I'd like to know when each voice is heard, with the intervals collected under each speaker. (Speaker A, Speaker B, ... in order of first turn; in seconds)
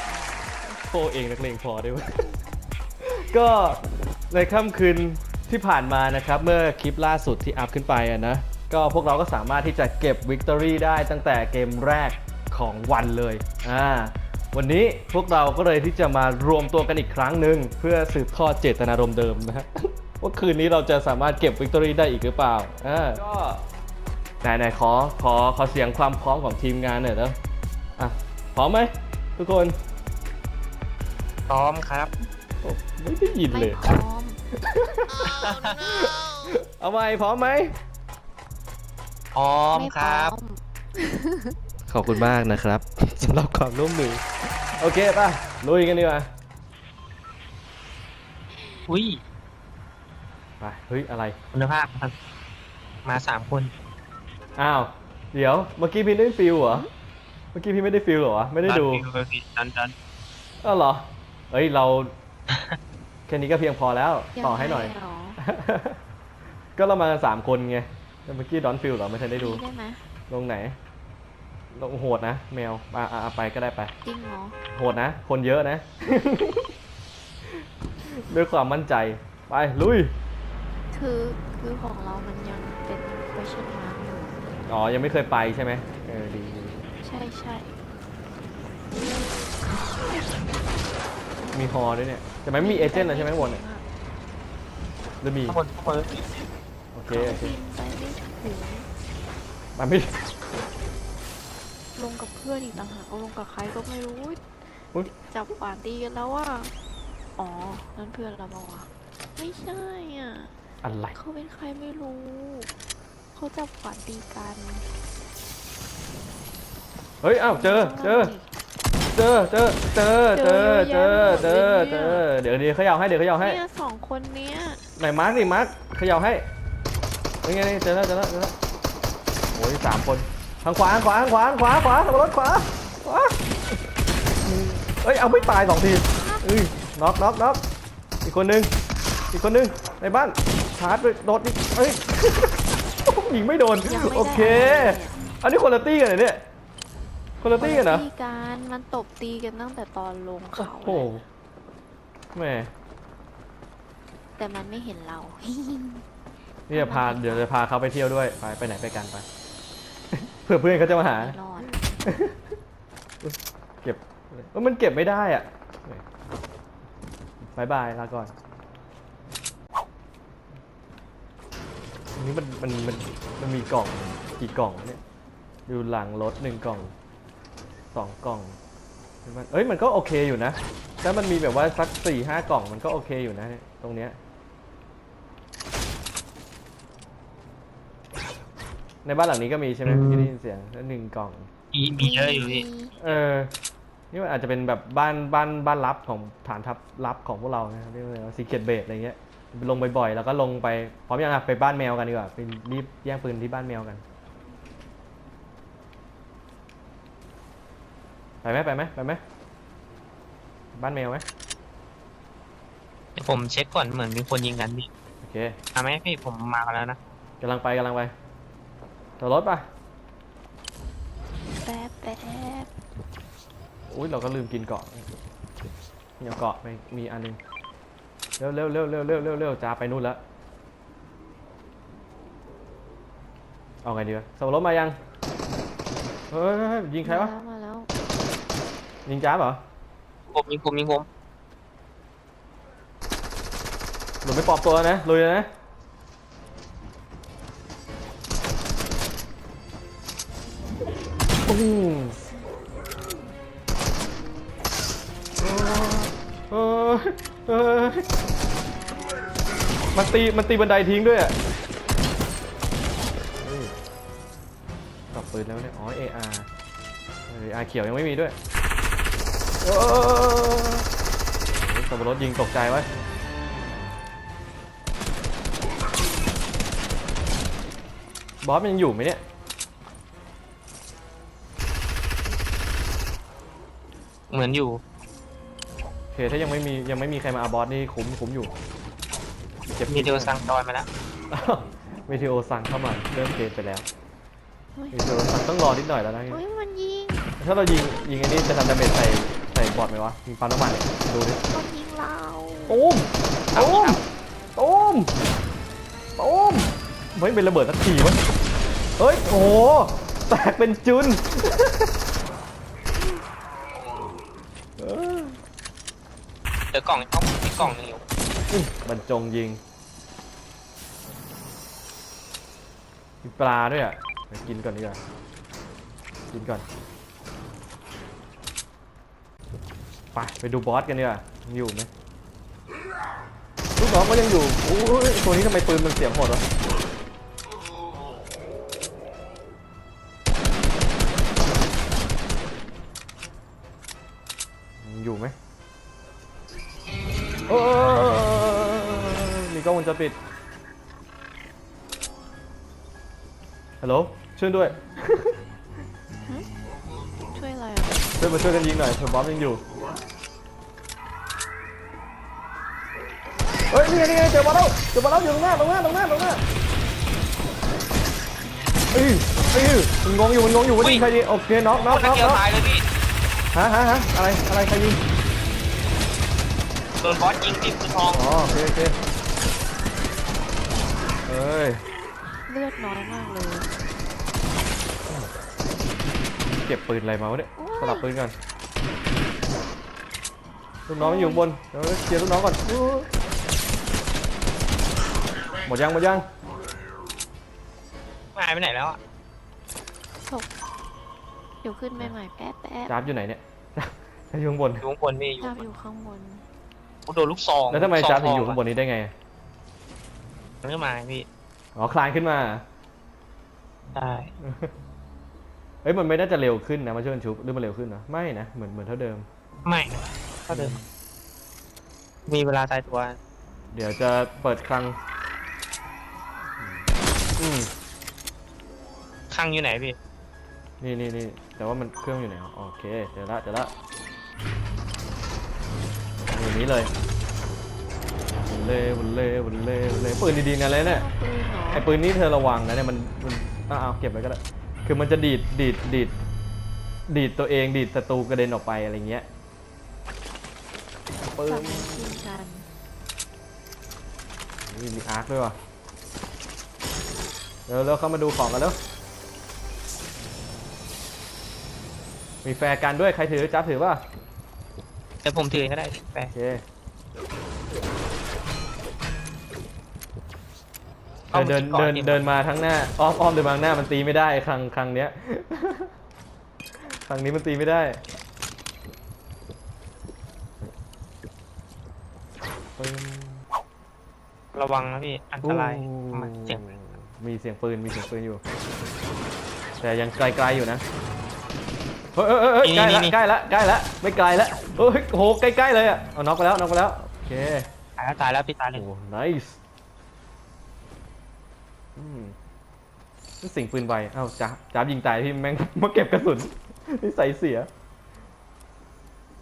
Speaker A: 0.7-2.1, 3.0-3.8, 4.3-23.6, 24.4-27.4, 28.0-29.8, 32.6-34.0, 34.6-37.8, 41.9-44.2, 44.8-46.3, 50.6-51.4, 54.6-56.9, 57.5-59.0, 60.6-62.1, 63.3-66.0, 66.8-69.6, 70.3-70.8, 71.7-73.9, 74.7-76.7, 78.0-80.1, 84.7-86.8, 91.5-93.6, 95.2-95.6, 96.9-97.6, 99.8-100.2, 110.8-111.2, 117.2-118.3, 119.1-123.6, 125.0-126.5, 127.4-128.5, 129.5-133.4, 134.4-137.6, 138.2-138.7, 139.3-146.4, 147.4-148.1, 150.6-151.2, 152.3-152.7, 156.7-159.2, 160.1-162.4, 163.2-166.0, 167.6-168.3, 172.2-175.0, 175.7-176.9, 177.9-178.6, 179.2-184.2, 189.1-191.5, 193.0-193.5, 194.1-204.0, 208.4-209.2, 210.8-211.2, 215.2-215.6, 217.4-218.1, 219.2-219.7, 223.9-225.1, 226.2-227.4, 228.4-230.2, 233.8-235.0, 236.3-237.3, 239.1-239.6, 244.2-245.5, 251.5-252.2, 255.4-258.1, 259.9-261.4, 263.4-263.7, 265.1-266.5, 267.3-268.4, 269.6-270.9, 271.6-272.9, 278.4-279.2, 286.1-288.5, 289.7-290.4, 291.3-293.9, 294.9-296.4, 297.4-301.4, 302.7-304.0, 304.6-305.1, 306.2-308.2, 309.0-311.9, 314.8-315.4, 318.5-319.6, 323.2-325.0, 326.3-326.6, 330.1-331.9, 333.8-336.4, 344.8-345.4, 347.5-350.2, 353.8-355.4, 358.2-359.6, 363.7-366.4, 368.9-372.4, 373.5-375.0, 378.1-379.0, 381.2-381.8, 386.6-388.3, 390.9-393.1, 395.6-396.3, 402.9-404.9, 407.7-409.1, 411.8-412.6, 414.4-414.7, 415.8-419.3, 420.5-420.9, 423.7-425.0, 427.4-427.7, 430.8-433.7, 436.3-436.9, 438.4-441.1, 441.7-446.1, 447.1-449.3, 451.3-452.1, 454.7-455.6, 457.7-458.8, 462.4-464.0, 466.3-466.6, 471.3-475.9, 476.9-478.0, 482.8-483.4, 485.4-488.4, 489.8-490.8, 492.1-497.7, 498.7-499.6, 502.0-502.4, 503.4-507.7
Speaker B: 31.5-32.1, 35.3-35.7, 39.4-40.4, 48.9-49.2, 51.5-52.1, 53.0-53.7, 58.6-59.9, 62.5-62.8, 95.5-96.2, 189.8-190.3, 191.7-193.2, 213.2-214.9, 215.8-217.0, 240.3-241.1, 284.3-284.8, 289.9-290.9, 303.5-304.0, 316.7-318.0, 370.8-371.0, 371.7-372.8, 377.0-378.2, 398.4-399.0, 404.8-405.7, 407.1-408.6, 410.6-411.3, 413.9-414.3, 419.6-420.8, 422.3-423.2, 429.3-430.0, 465.2-466.3, 471.3-472.3, 484.6-486.6, 492.6-493.2, 498.0-498.9
Speaker C: 33.4-34.4, 39.7-41.6, 64.4-65.4, 69.3-70.0, 74.0-74.6, 80.9-84.4, 87.0-87.7, 92.6-93.9, 97.1-98.9, 102.0-104.4, 105.2-106.7, 107.4-110.5, 111.1-112.7, 113.3-114.9, 117.4-118.5, 120.3-122.3, 123.4-124.9, 135.1-136.4, 143.8-145.2, 147.5-151.1, 154.4-156.1, 156.7-157.5, 160.7-161.8, 192.0-192.9, 221.6-222.7, 237.0-237.9, 294.8-295.1, 296.3-297.2, 301.5-302.8, 357.3-358.2, 382.4-383.7, 387.6-388.1, 391.0-391.5, 401.6-403.0, 405.4-406.4, 440.6-441.9, 451.4-452.7